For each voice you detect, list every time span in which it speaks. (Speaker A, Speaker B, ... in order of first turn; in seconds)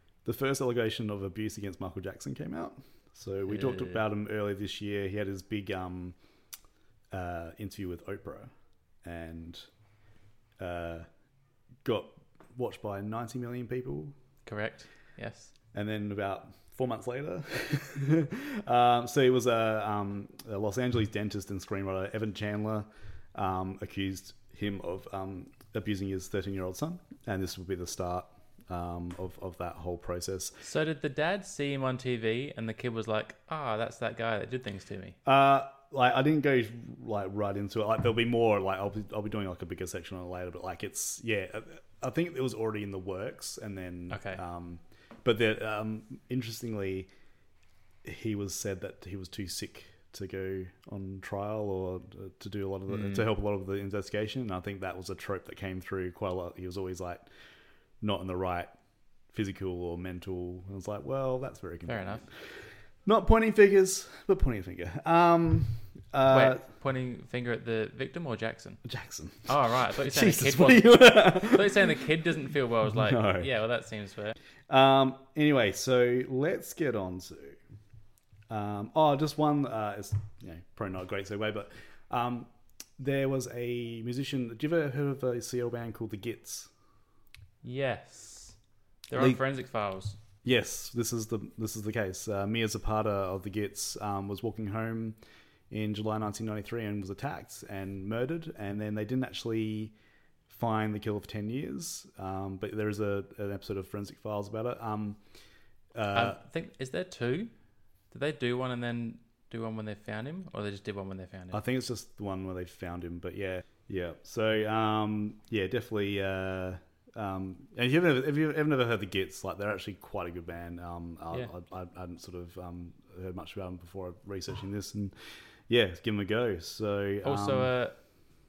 Speaker A: 0.2-6.1, 7.1-8.5, 9.0-9.7, 10.6-11.1, 11.8-14.1, 15.7-30.5, 35.2-47.1, 48.0-57.2, 58.0-58.7, 59.3-62.5, 63.0-66.6, 68.8-72.0, 72.8-73.5, 74.7-77.6, 78.5-86.7, 89.2-89.4, 90.4-95.2, 95.7-99.9, 100.5-105.2, 105.9-106.4, 111.5-127.7
Speaker B: 3.5-4.0, 14.4-15.5, 30.6-35.2, 44.1-44.4, 52.9-53.3, 61.9-62.2, 66.3-68.8, 69.5-74.3, 87.6-88.5, 89.1-90.2, 106.1-107.5, 108.1-111.6, 127.2-128.0